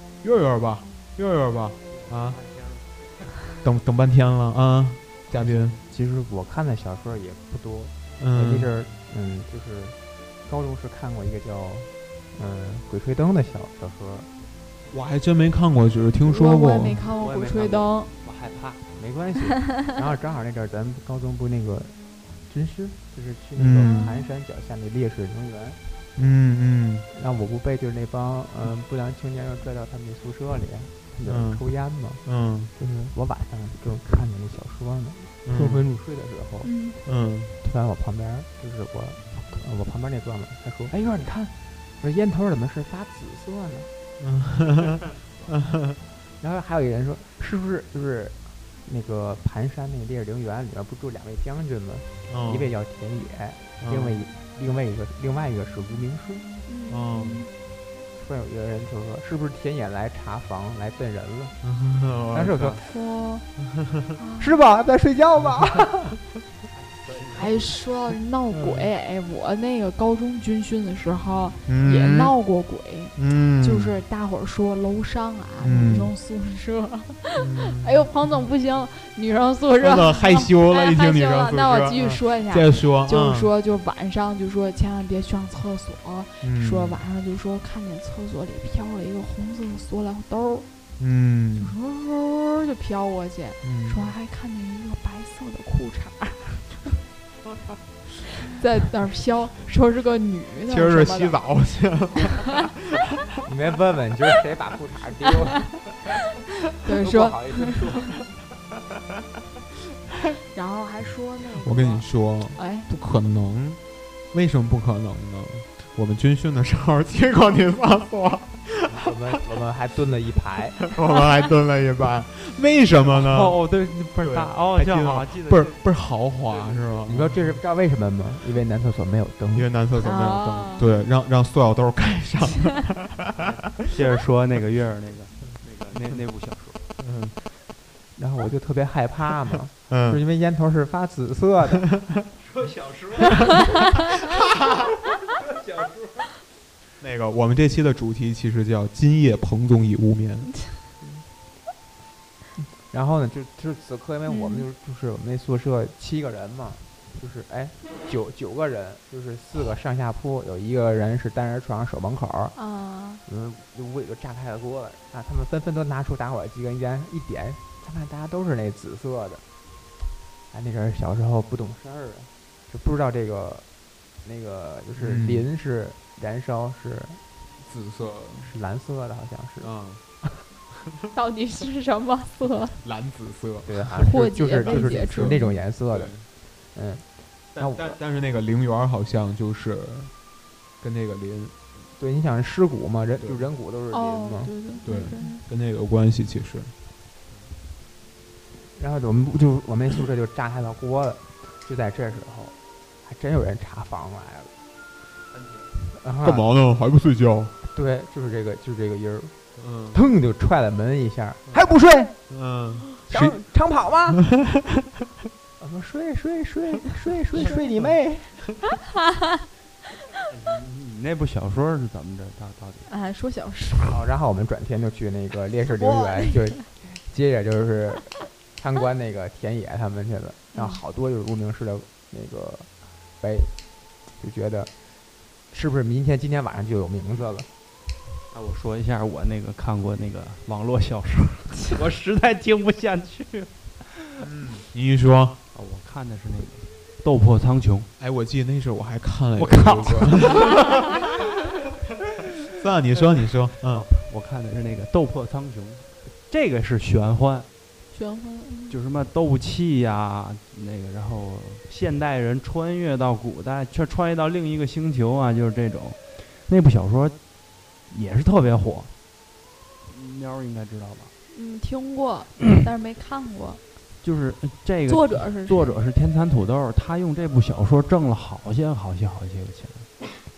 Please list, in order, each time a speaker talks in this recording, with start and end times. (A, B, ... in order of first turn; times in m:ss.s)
0:00.2-0:02.4 A
0:02.4-0:02.8 B
0:03.6-0:05.8 A
0:05.3-0:14.3 C
0:08.2-0:08.7 A
0:14.9-0:17.1 A
0:16.2-0:18.1 D
0:17.2-0:18.8 B
0:19.0-0:21.9 C
0:22.5-0:25.8 C
0:23.6-0:23.9 A
0:23.8-0:24.2 D
0:26.2-0:27.1 A
0:27.1-0:32.2 C
0:31.2-0:31.6 A
0:32.2-0:32.7 A
0:32.8-0:36.7 C
0:35.4-0:35.8 A
0:36.6-0:37.0 D
0:37.0-0:37.5 A
0:37.6-0:43.9 C
0:44.2-0:46.0 A
0:46.4-0:56.5 C
0:52.3-0:52.7 A
0:53.8-0:54.2 A
0:56.7-0:57.5 D
0:56.9-0:57.4 A
0:58.2-1:01.6 C
1:01.6-1:02.8 A
1:02.3-1:02.9 C
1:02.9-1:03.4 D
1:04.2-1:04.5 D
1:04.4-1:06.2 C
1:07.1-1:07.4 B
1:07.2-1:07.4 C
1:07.4-1:30.6 D
1:08.6-1:08.9 A
1:11.6-1:12.3 A
1:13.2-1:14.0 A
1:15.6-1:16.1 A
1:17.4-1:18.1 A
1:19.8-1:23.5 A
1:26.4-1:27.0 A
1:31.0-1:31.7 A
1:31.6-1:37.0 D
1:33.6-1:34.1 A
1:38.4-1:41.4 D
1:40.7-1:43.3 A
1:43.4-1:45.8 C
1:46.8-1:47.9 D
1:46.9-1:48.2 C
1:50.5-1:52.9 D
1:51.6-1:53.8 A
1:54.3-1:59.0 A
1:58.9-2:00.8 C
2:00.8-2:03.6 A
2:03.0-2:05.8 B
2:04.2-2:07.6 A
2:07.1-2:09.7 C
2:09.5-2:13.7 A
2:10.0-2:10.9 D
2:13.9-2:16.8 B
2:17.0-2:17.3 A
2:18.2-2:21.9 C
2:19.8-2:20.2 A
2:22.4-2:23.4 B
2:24.2-2:24.8 A
2:25.3-2:26.1 B
2:27.0-2:30.6 A
2:32.6-2:42.6 C
2:34.3-2:34.6 D
2:42.5-2:43.2 D
2:43.2-2:49.4 C
2:50.5-2:53.6 C
2:54.2-2:57.2 C
2:55.0-2:55.5 A
2:57.6-2:58.5 A
2:58.4-2:59.7 C
2:59.6-3:00.0 A
3:01.1-3:02.8 D
3:02.8-3:03.8 A
3:03.6-3:08.0 C
3:04.0-3:05.6 D
3:04.6-3:06.2 A
3:07.6-3:10.1 A
3:10.8-3:11.5 A
3:12.0-3:14.5 C
3:13.2-3:13.5 A
3:13.9-3:15.4 D
3:14.8-3:16.7 A
3:18.8-3:24.5 C
3:26.0-3:26.5 C
3:26.2-3:27.5 A
3:27.6-3:29.4 C
3:29.6-3:30.0 A
3:29.9-3:32.1 C
3:32.3-3:33.4 A
3:33.0-3:34.2 C
3:34.2-3:34.6 A
3:35.6-3:38.4 C
3:40.3-3:42.9 B
3:42.9-3:44.0 D
3:43.8-3:53.5 C
3:45.8-3:46.4 D
3:50.5-3:50.8 D
3:54.1-3:54.7 C
3:55.5-3:57.5 C
3:58.3-4:04.2 B
4:04.2-4:05.4 A
4:05.5-4:07.9 B
4:08.0-4:10.7 A
4:09.4-4:11.2 B
4:12.5-4:13.9 A
4:13.6-4:17.5 B
4:17.9-4:18.8 D
4:18.7-4:27.2 B
4:27.9-4:28.9 B
4:29.8-4:31.1 B
4:31.3-4:33.6 D
4:34.0-4:39.9 B
4:34.9-4:35.8 D